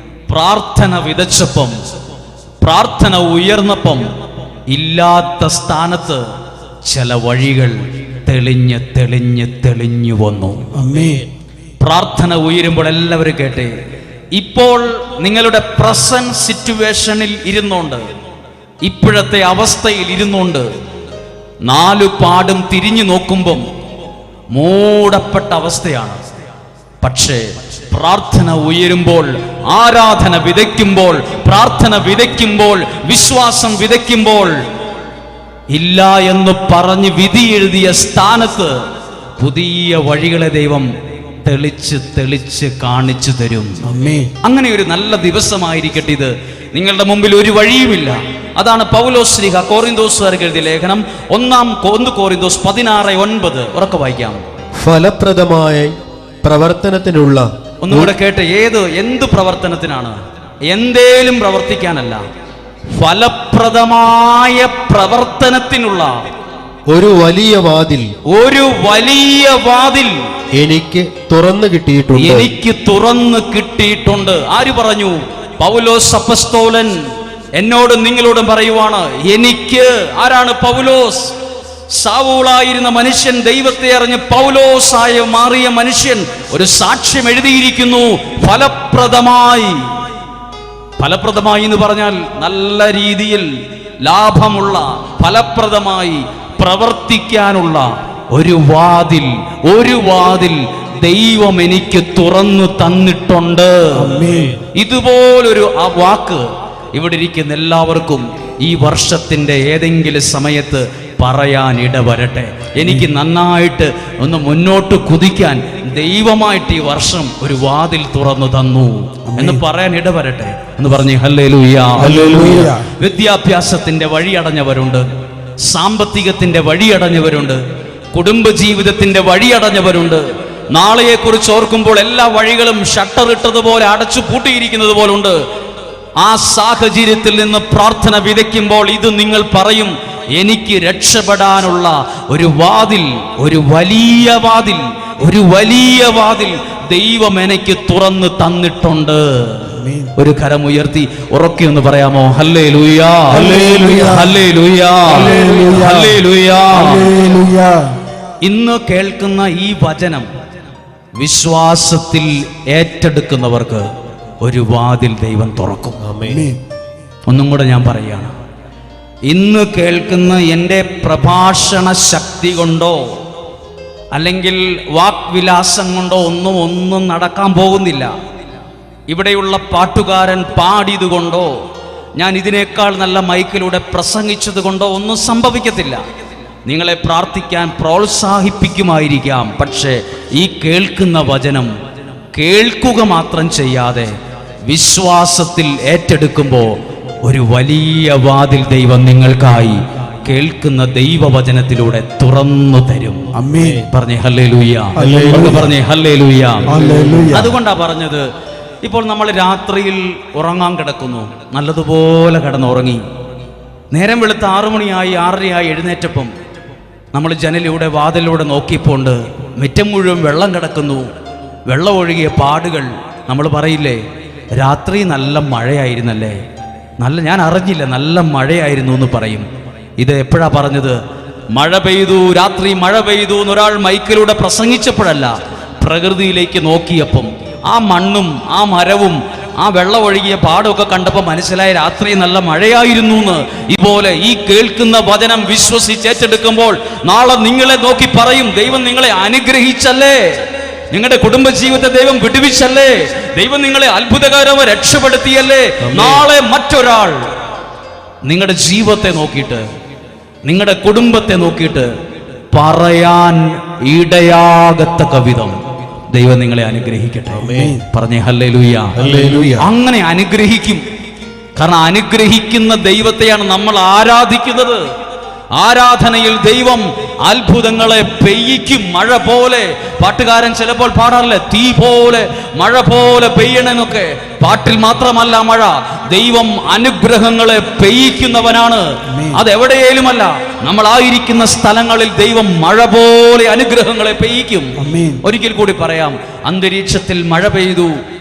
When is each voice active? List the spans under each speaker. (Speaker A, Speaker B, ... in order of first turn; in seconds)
Speaker A: 0.3-1.8, 2.6-4.1, 4.7-6.3, 6.9-10.7, 11.8-13.7, 14.3-18.0, 18.8-20.7, 21.6-23.6, 24.5-26.2, 27.0-34.6, 35.7-38.8, 39.4-40.9, 41.4-43.8, 44.4-54.4, 57.8-62.2, 63.0-66.2, 68.3-70.1, 72.1-77.0, 77.6-81.4, 82.0-89.9, 91.0-93.5, 94.0-125.1, 125.6-127.6, 128.1-135.4, 136.2-157.1, 158.4-160.3, 161.2-163.9, 164.4-166.0, 167.3-168.3, 169.3-173.2, 174.1-178.1, 179.1-181.6, 182.2-186.0, 186.7-191.7, 192.3-194.1, 194.7-203.2, 203.9-206.7, 207.3-208.3, 208.8-213.0, 213.9-216.3, 217.1-221.1, 221.7-224.0, 224.5-226.4, 227.0-229.5, 230.0-231.0, 231.5-257.3, 258.2-259.6, 260.5-261.9, 262.5-265.6, 266.1-270.8, 271.6-274.8, 275.6-298.0
Speaker B: 10.8-11.3, 43.8-44.3, 104.0-104.6, 119.3-119.6, 122.0-122.9, 149.8-150.1, 153.3-154.3, 155.1-156.2, 156.7-158.0, 166.3-166.6, 203.3-203.9, 205.0-205.7, 206.7-207.5, 267.4-267.8, 289.1-289.4, 294.8-295.2
Speaker C: 54.8-58.1, 66.9-68.1, 70.6-72.5, 166.0-166.5, 203.6-203.8, 205.0-205.6, 206.7-207.3, 255.8-256.2, 267.4-267.8, 269.0-269.7